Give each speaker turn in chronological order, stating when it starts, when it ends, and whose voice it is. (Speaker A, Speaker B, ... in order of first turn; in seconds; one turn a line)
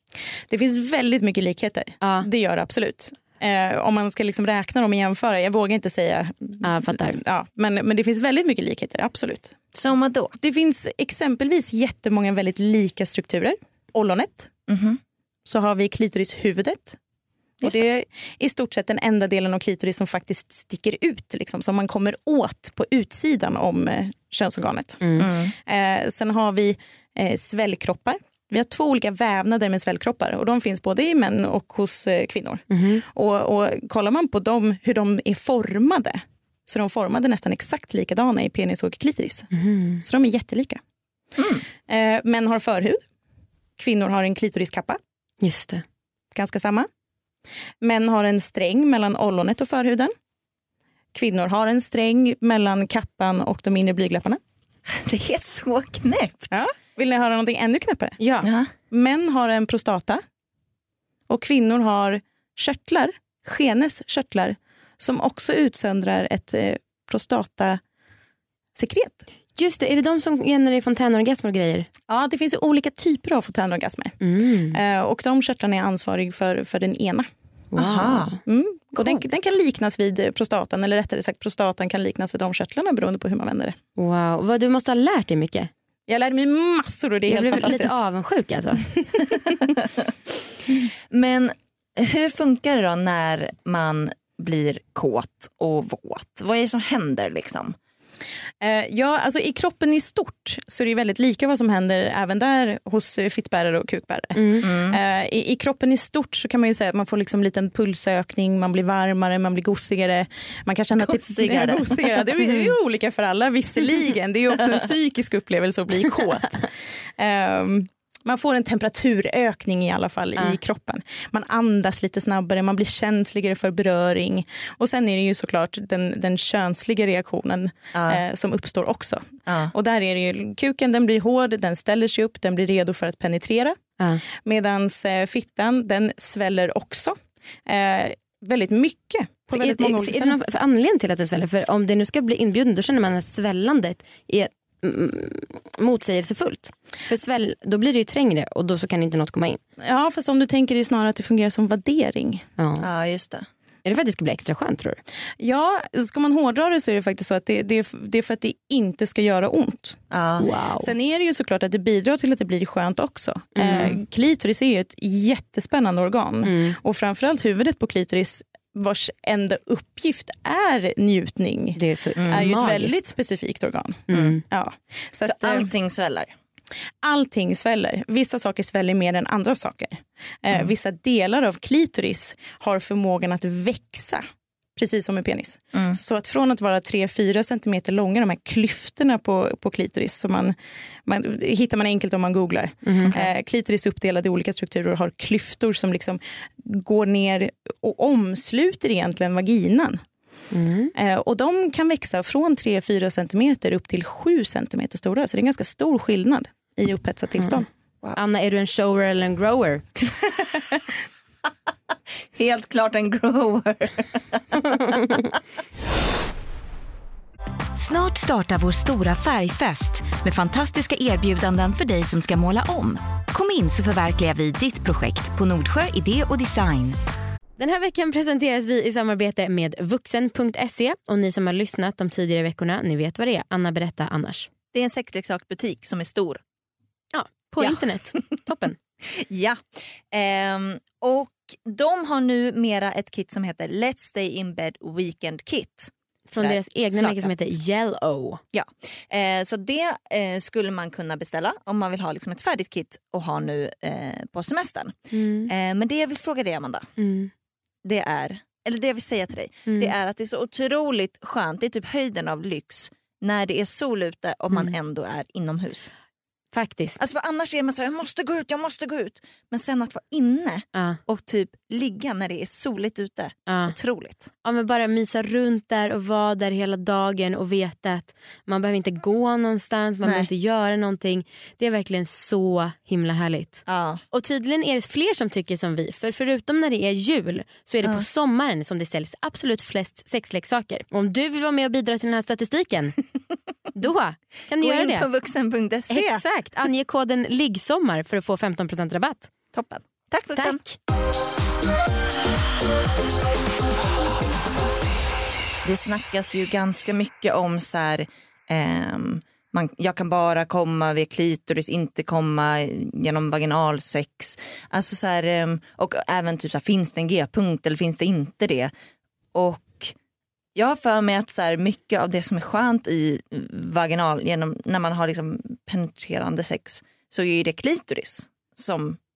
Speaker A: 0.5-9.6
Speaker B: 2.0-2.3
Speaker B: 6.6-7.2
Speaker C: 9.7-10.3
Speaker A: 10.4-14.5
Speaker C: 14.7-15.0
Speaker A: 15.5-17.0
Speaker A: 17.6-40.8
Speaker B: 25.0-25.3
Speaker C: 25.2-25.5
Speaker B: 32.7-33.0
Speaker B: 39.5-40.0
Speaker C: 41.4-41.6
Speaker A: 41.9-43.0
Speaker A: 43.8-45.0
Speaker B: 45.4-45.8
Speaker A: 46.3-46.9
Speaker A: 47.8-50.1
Speaker A: 51.1-54.4
Speaker C: 54.9-56.6
Speaker A: 56.5-58.2
Speaker B: 58.2-58.5
Speaker C: 58.4-58.7
Speaker A: 58.9-60.2
Speaker A: 61.3-67.8
Speaker A: 68.8-69.2
Speaker B: 69.5-71.9
Speaker A: 72.1-74.2
Speaker B: 74.2-74.8
Speaker A: 74.7-77.3
Speaker B: 77.7-78.4
Speaker C: 77.8-78.2
Speaker D: 78.0-78.3
Speaker A: 78.5-83.8
Speaker B: 84.0-85.7
Speaker A: 86.1-88.0
Speaker B: 87.3-88.9
Speaker C: 89.8-90.1
Speaker C: 91.1-97.8
Speaker A: 98.6-133.8
Speaker B: 104.3-104.6
Speaker C: 104.6-105.0
Speaker C: 111.0-112.7
Speaker C: 127.9-128.2
Speaker C: 129.5-129.7
Speaker A: 134.3-140.3
Speaker B: 139.5-149.6
Speaker A: 149.8-152.5
Speaker B: 152.6-152.9
Speaker C: 152.8-153.4
Speaker B: 153.8-155.0
Speaker A: 155.4-160.0
Speaker C: 160.1-160.5
Speaker B: 160.4-160.9
Speaker A: 160.8-175.7
Speaker B: 163.6-164.0
Speaker B: 166.4-166.8
Speaker B: 171.8-172.9
Speaker C: 172.2-172.5
Speaker B: 174.1-174.4
Speaker C: 175.2-176.3
Speaker A: 177.0-184.2
Speaker A: 184.8-190.5
Speaker A: 191.1-200.0
Speaker B: 192.8-193.3
Speaker B: 200.5-200.9
Speaker A: 200.9-207.7
Speaker B: 208.2-210.1
Speaker C: 212.3-215.4
Speaker D: 217.7-227.0
Speaker B: 227.6-234.5
Speaker C: 234.7-236.4
Speaker B: 237.1-238.8
Speaker C: 239.1-247.3
Speaker B: 246.3-248.4
Speaker C: 248.5-256.9
Speaker B: 255.1-255.5
Speaker B: 257.0-257.3
Speaker C: 257.8-265.9
Speaker B: 259.7-259.9
Speaker B: 266.5-267.0
Speaker C: 267.0-274.2
Speaker B: 270.7-271.0
Speaker B: 273.5-273.8
Speaker B: 274.4-293.0
Speaker C: 280.0-280.3
Speaker C: 283.7-284.0
Speaker B: 293.7-295.1
Speaker C: 294.6-296.2
Speaker B: 295.9-299.3
Speaker C: 299.5-300.6
Speaker B: 300.3-300.8
Speaker C: 305.6-318.7
Speaker C: 319.3-319.9
Speaker C: 320.5-329.0